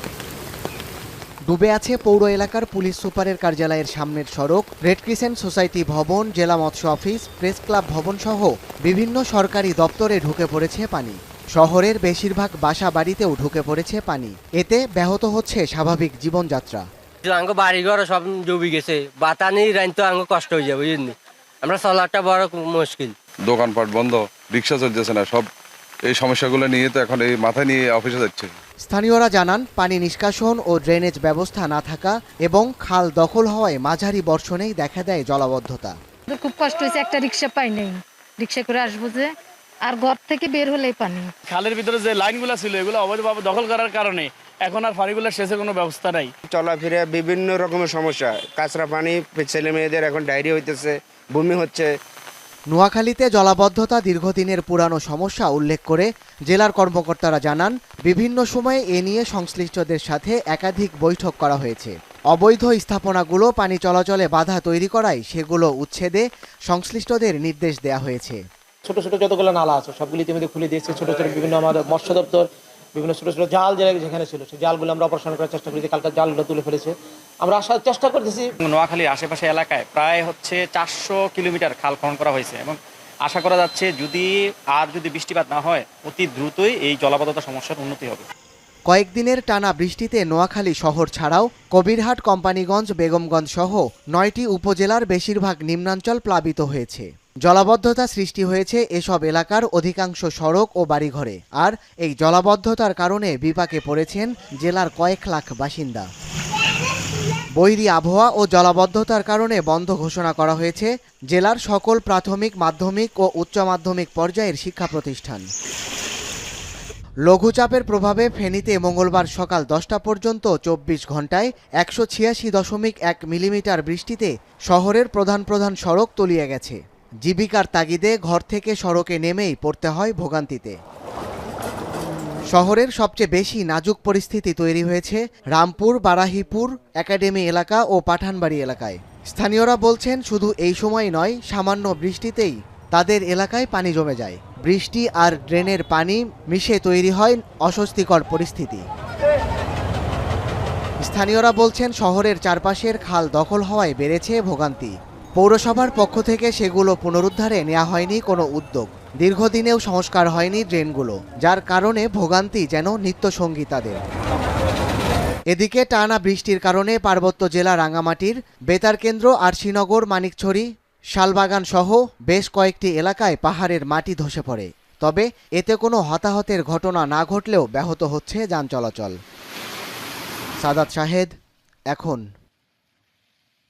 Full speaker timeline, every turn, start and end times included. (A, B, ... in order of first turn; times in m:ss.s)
0:01.5-0:16.8 A
0:17.2-0:23.2 B
0:23.5-0:25.5 C
0:26.1-0:28.5 C
0:28.8-0:36.0 A
0:36.3-0:39.3 D
0:39.8-0:41.3 D
0:41.5-0:46.3 E
0:46.5-0:51.9 F
0:52.7-1:08.4 A
1:08.8-1:18.5 G
1:18.6-1:28.3 H
1:28.9-1:46.1 A
1:47.6-1:55.5 A
1:57.3-2:10.8 A
2:12.5-2:28.8 A
2:31.0-2:44.0 A
2:45.5-2:59.2 A
3:00.6-3:01.3 A
3:01.9-3:02.3 A